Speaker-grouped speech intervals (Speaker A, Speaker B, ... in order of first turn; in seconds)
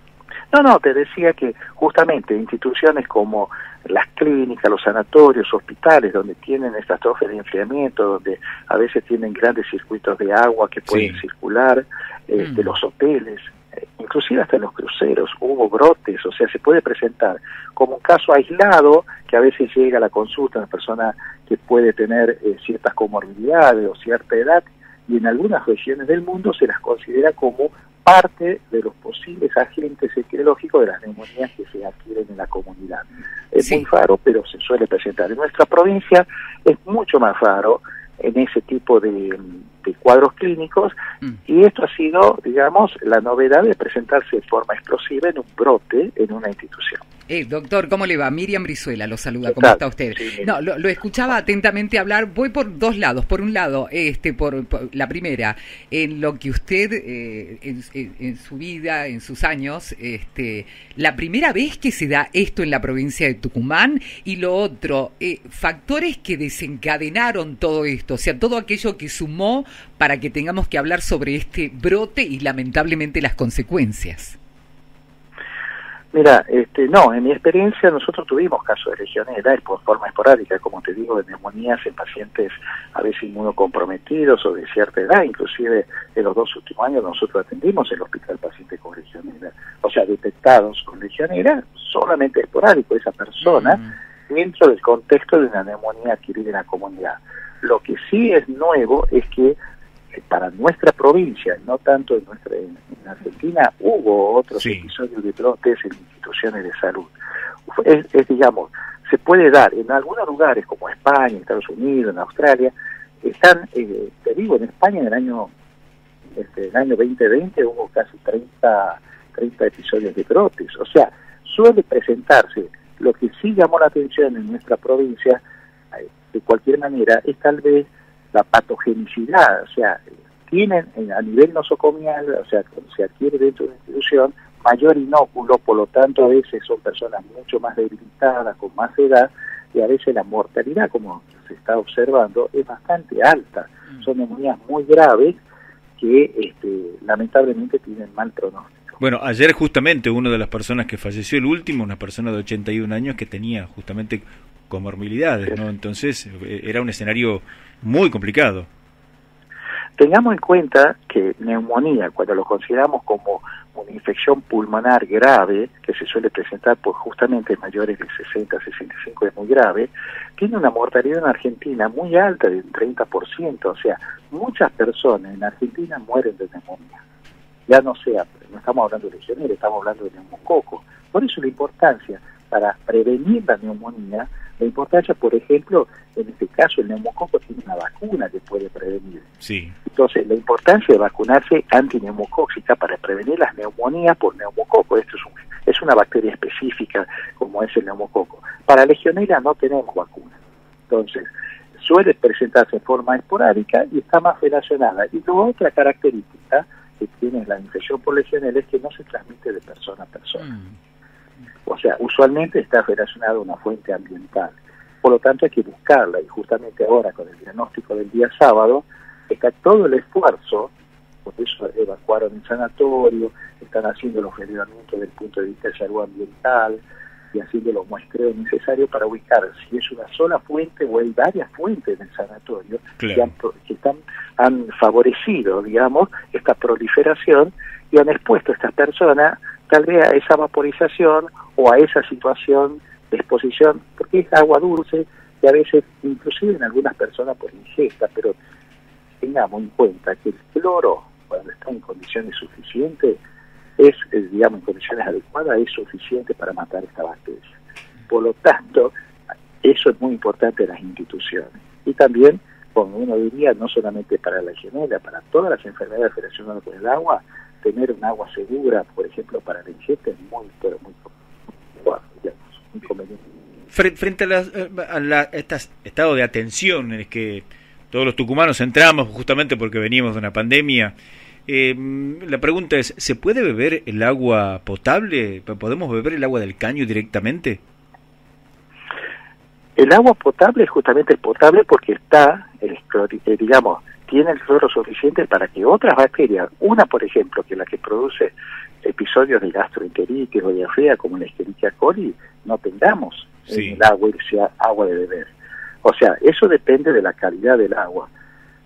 Speaker A: 0.5-40.9, 41.4-47.0, 49.5-50.6, 76.1-99.5, 100.2-107.1, 107.7-115.5, 116.3-145.4, 146.0-149.0, 160.0-177.0, 177.7-189.2, 189.8-200.4, 200.9-210.5, 211.7-220.7, 221.2-226.8, 227.3-248.3, 249.2-253.2, 253.8-257.6, 258.1-258.9, 259.6-271.1, 271.7-273.2, 289.8-308.1
Speaker B: 10.9-11.2, 104.6-104.9, 149.0-158.7, 189.4-189.7, 233.0-233.3, 273.7-280.9, 281.5-287.6, 303.5-303.8
Speaker C: 12.4-12.7, 33.6-33.8, 47.3-74.4, 93.4-94.0, 210.4-210.8